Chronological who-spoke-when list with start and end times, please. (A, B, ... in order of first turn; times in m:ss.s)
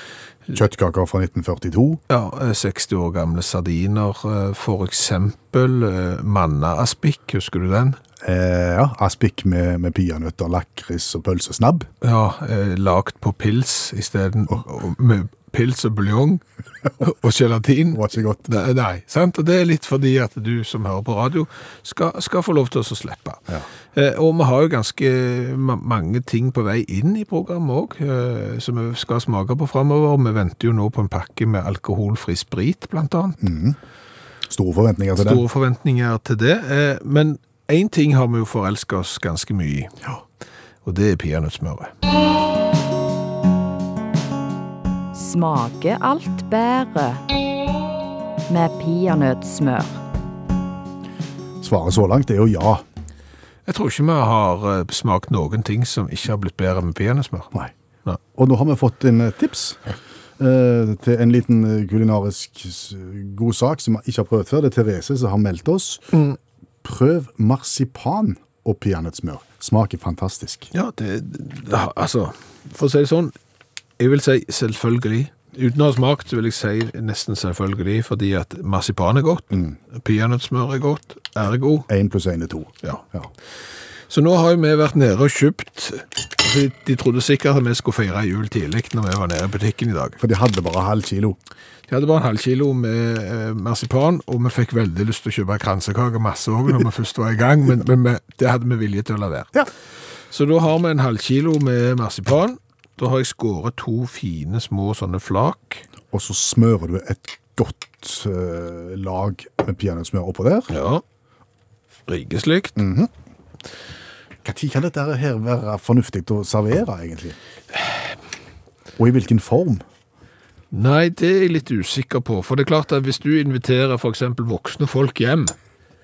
0:00.5-0:02.0 A
0:02.1-0:08.0 B
0:08.2-0:11.9 A
0:12.0-0:16.4 B
0:17.0-0:33.5 B
0:17.9-0:18.5 A
0:33.4-0:33.8 A
0:34.5-0:35.4 A
0:35.2-0:40.0 B
0:40.8-0:41.9 B
0:45.1-0:47.2 C
0:48.5-0:50.0 C
0:51.6-0:52.8 A
0:53.7-0:57.5 B
0:58.4-1:06.2 A
1:06.8-1:10.7 A
1:10.7-1:13.3 B
1:14.0-1:21.9 B
1:21.9-1:23.3 A
1:24.1-1:30.2 B
1:30.2-1:31.4 A
1:31.9-1:39.6 B
1:40.3-1:45.8 B
1:46.1-1:50.7 A
1:50.7-1:51.0 B
1:52.1-1:52.8 B
1:52.8-1:53.1 A
1:54.4-1:57.4 A
1:59.0-1:59.8 A
2:00.7-2:05.6 B